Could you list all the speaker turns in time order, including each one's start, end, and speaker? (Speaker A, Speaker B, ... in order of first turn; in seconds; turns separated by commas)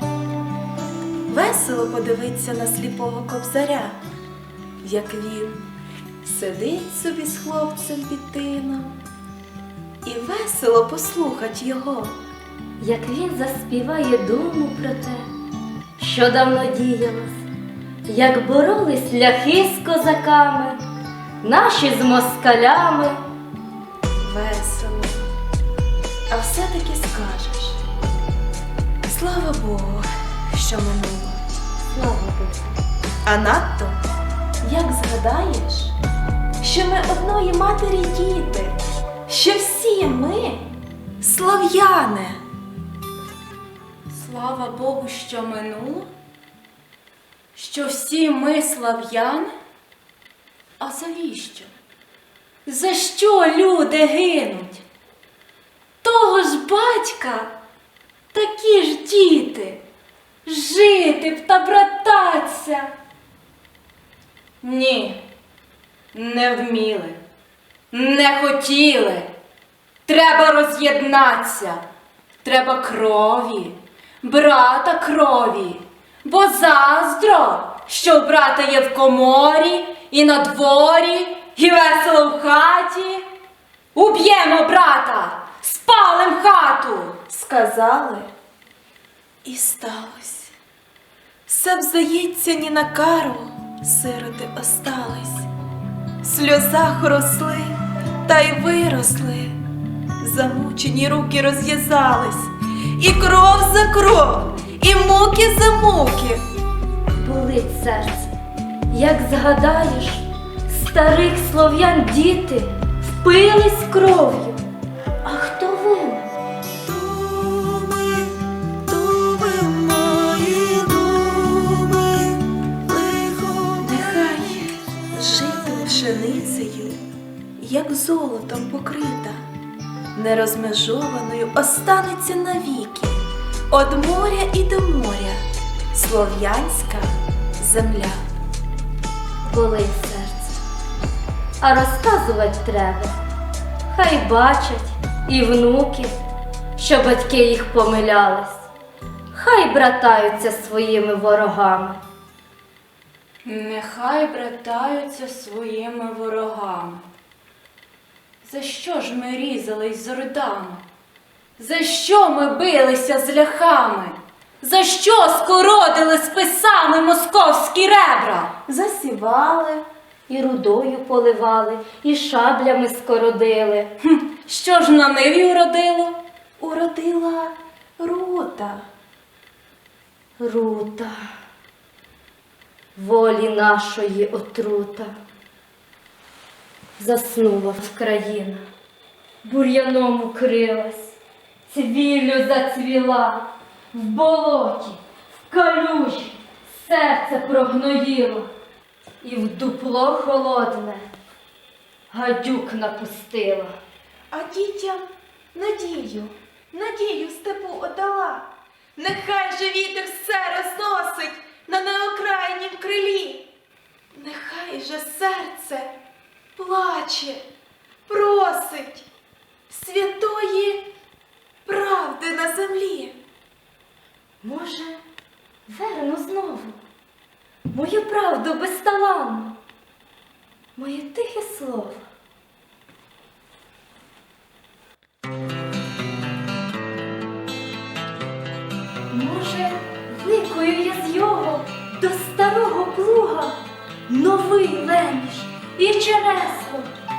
Speaker A: 1.3-4.0, Speaker A: 4.8-5.6, Speaker A: 6.2-9.0, Speaker A: 10.0-12.1, Speaker B: 12.8-15.2, Speaker B: 16.0-17.4, Speaker B: 18.1-20.8, Speaker B: 21.4-23.2, Speaker A: 24.2-25.3, Speaker A: 26.3-27.8, Speaker A: 29.0-31.4, Speaker B: 31.9-32.7, Speaker A: 33.2-34.0, Speaker A: 34.6-35.9, Speaker A: 36.6-40.7, Speaker A: 41.2-42.4, Speaker C: 44.1-46.1, Speaker C: 47.5-49.5, Speaker C: 50.8-51.7, Speaker C: 52.7-54.8, Speaker C: 56.0-57.5, Speaker C: 58.3-59.8, Speaker C: 60.5-62.9, Speaker C: 64.6-65.2, Speaker C: 66.1-67.2, Speaker C: 67.9-69.3, Speaker C: 70.1-71.8, Speaker C: 72.4-83.2, Speaker C: 83.9-87.2, Speaker A: 87.3-88.3, Speaker A: 89.4-90.5, Speaker A: 91.5-95.5, Speaker A: 96.2-99.6, Speaker A: 100.2-106.4, Speaker B: 107.2-108.3, Speaker B: 108.9-114.6, Speaker B: 115.2-116.3, Speaker A: 116.9-118.2, Speaker A: 118.9-127.0, Speaker A: 127.6-129.4, Speaker A: 130.1-138.2, Speaker B: 139.4-140.6, Speaker B: 141.6-143.2, Speaker B: 143.9-148.7, Speaker B: 149.3-152.0, Speaker C: 153.4-157.1, Speaker C: 158.4-160.8, Speaker C: 161.6-168.5, Speaker A: 168.7-169.8, Speaker B: 170.3-173.9, Speaker C: 174.0-176.2, Speaker A: 176.6-178.9, Speaker B: 180.4-181.3, Speaker B: 182.9-185.1, Speaker B: 187.0-188.6, Speaker B: 189.4-191.2, Speaker B: 191.7-198.5, Speaker B: 199.2-201.1, Speaker B: 202.1-203.7, Speaker A: 204.3-213.5, Speaker A: 214.1-215.9, Speaker A: 216.6-217.4, Speaker A: 218.1-219.1, Speaker A: 219.7-220.9, Speaker A: 221.6-223.2, Speaker B: 224.4-225.0, Speaker B: 225.7-226.8, Speaker B: 227.7-229.6, Speaker B: 230.8-232.0, Speaker B: 239.1-246.9